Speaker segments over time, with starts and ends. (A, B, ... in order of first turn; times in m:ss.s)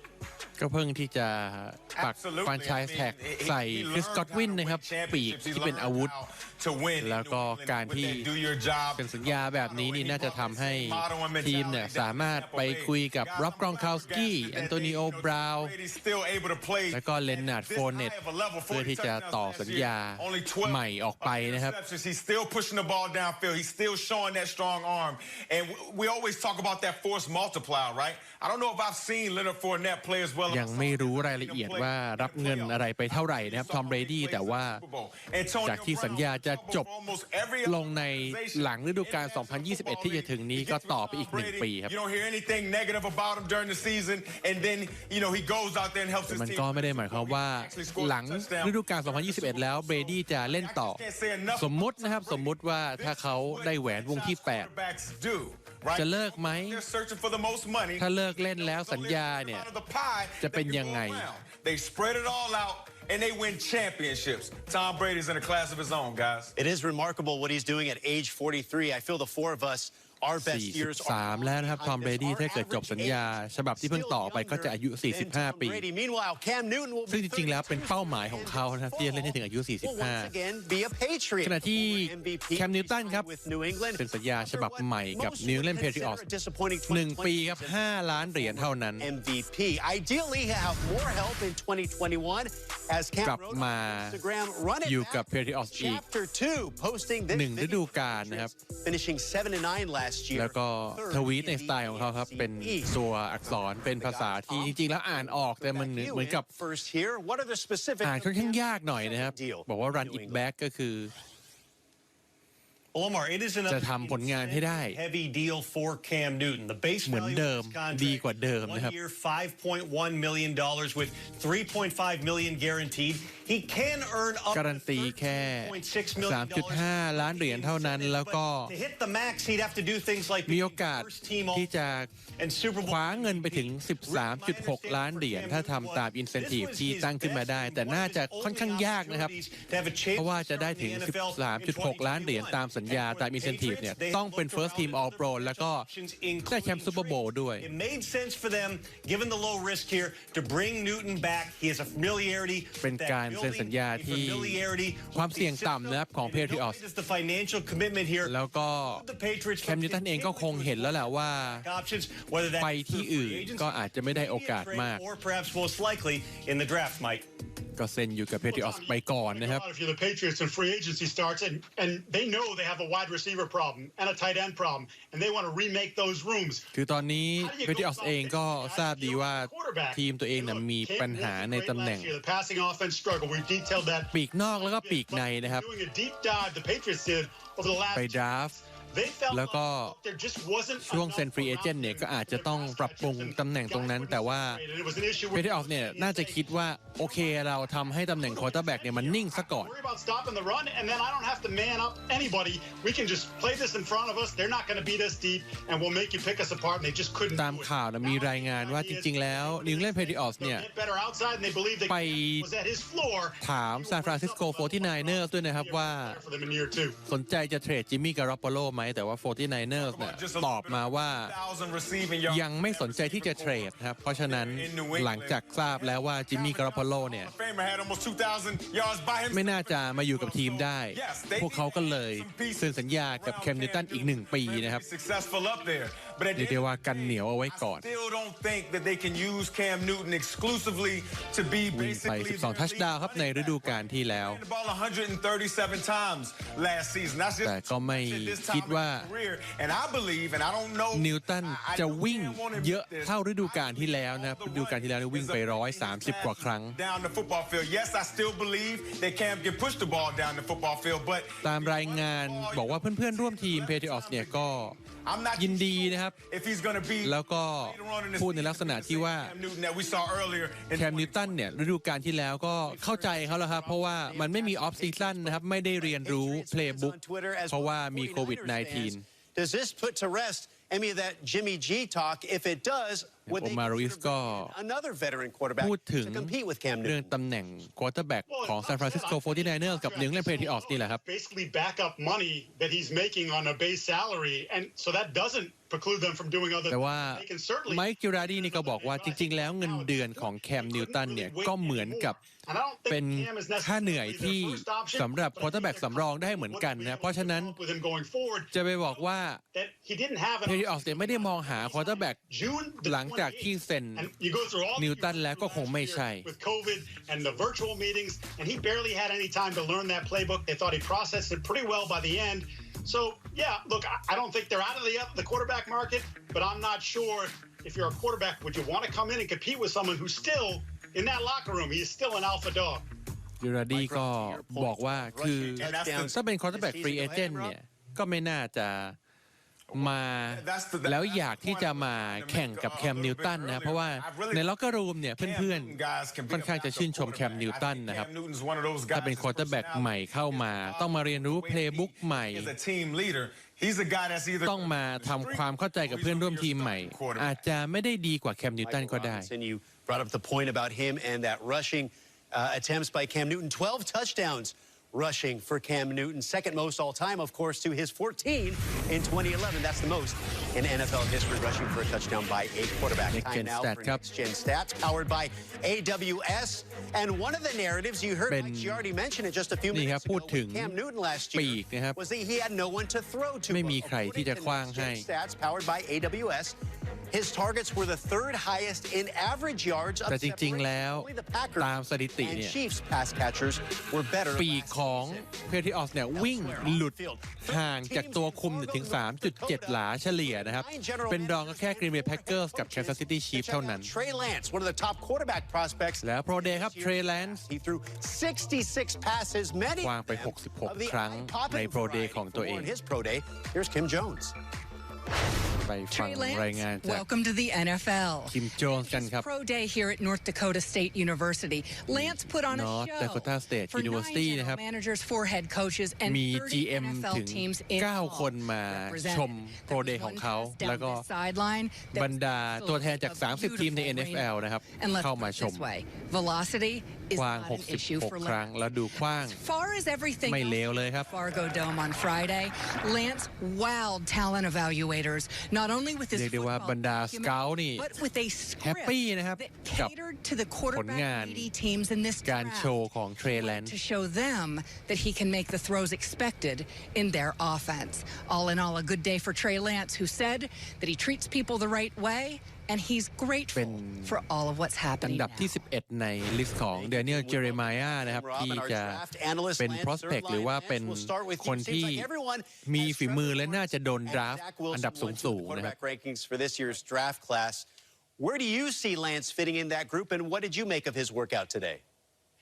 0:00.6-0:06.1 A
0:01.9-1:06.5 B
0:07.0-0:08.3 A
0:09.0-0:15.7 A
0:16.9-0:18.1 A
0:18.7-0:21.8 A
0:30.5-0:34.8 A
0:35.6-0:36.9 A
0:37.6-0:41.9 A
0:46.3-0:51.0 A
0:51.5-0:54.7 A
0:55.9-0:56.8 A
0:58.0-0:59.7 A
1:00.4-1:01.3 A
1:06.6-1:50.4 C
1:10.4-1:15.8 A
1:17.1-1:20.3 A
1:21.4-1:23.3 A
1:24.0-1:26.2 A
1:26.9-1:29.1 A
1:33.2-1:34.2 A
1:34.8-1:36.0 A
1:37.3-1:38.5 A
1:40.3-1:46.5 A
1:48.0-1:51.1 A
1:52.9-2:11.7 D
1:53.7-1:55.0 A
1:57.0-1:58.9 A
2:04.5-2:08.7 A
2:10.4-2:12.1 A
2:12.4-2:38.4 D
2:12.8-2:19.3 A
2:20.1-2:25.9 A
2:26.4-2:27.7 A
2:32.8-2:36.8 A
2:38.2-2:39.1 A
2:38.9-2:47.3 D
2:39.6-2:41.6 A
2:42.6-2:45.0 A
2:47.8-2:49.6 A
2:48.5-2:56.7 E
2:56.7-3:02.1 A
2:57.4-3:37.0 E
3:04.1-3:05.6 A
3:07.9-3:08.5 A
3:09.3-3:10.0 A
3:10.8-3:14.6 A
3:15.3-3:19.7 A
3:27.3-3:30.6 A
3:31.9-3:32.5 A
3:33.4-3:36.2 A
3:37.0-3:41.3 A
3:39.7-4:31.7 B
3:42.3-3:47.3 A
3:49.3-3:54.8 A
3:56.3-3:57.8 A
4:01.7-4:04.4 A
4:07.4-4:09.1 A
4:10.9-4:16.8 A
4:21.4-4:24.8 A
4:25.4-4:26.2 A
4:27.0-4:29.3 A
4:30.7-4:37.0 A
4:32.6-4:47.1 C
4:37.5-4:39.0 A
4:43.3-4:44.5 A
4:45.6-4:51.0 A
4:48.3-5:32.8 E
4:56.7-5:02.2 A
5:02.9-5:07.6 A
5:08.5-5:09.4 A
5:10.4-5:12.2 A
5:12.8-5:14.1 A
5:14.8-5:16.3 A
5:33.4-5:39.0 A
5:33.7-5:37.5 C
5:35.6-5:36.1 B
5:39.7-5:44.5 B
5:39.7-5:45.8 A
5:45.2-5:57.5 B
5:46.3-5:48.1 A
5:48.9-5:52.5 A
5:54.4-5:59.3 A
5:58.6-6:26.6 C
6:13.1-6:14.0 A
6:18.3-6:18.8 A
6:19.7-6:20.7 A
6:21.3-6:22.0 A
6:23.5-6:25.0 A
6:27.1-6:35.3 C
6:30.1-6:31.1 A
6:31.6-6:32.6 A
6:34.4-6:43.9 A
6:36.1-6:54.4 C
6:46.0-6:47.4 A
6:49.8-6:52.7 A
6:55.6-6:57.0 A
6:55.9-7:18.5 F
6:58.3-6:59.2 A
7:02.0-7:04.6 A
7:06.0-7:11.0 A
7:11.9-7:15.6 A
7:17.1-7:19.4 A
7:19.2-7:45.5 F
7:20.2-7:21.1 A
7:26.1-7:27.9 A
7:28.6-7:29.9 A
7:30.7-7:31.5 A
7:32.2-7:33.7 A
7:43.5-7:44.2 A
7:45.0-7:49.0 A
7:46.7-8:01.8 C
7:49.6-7:52.1 A
7:52.6-7:55.7 A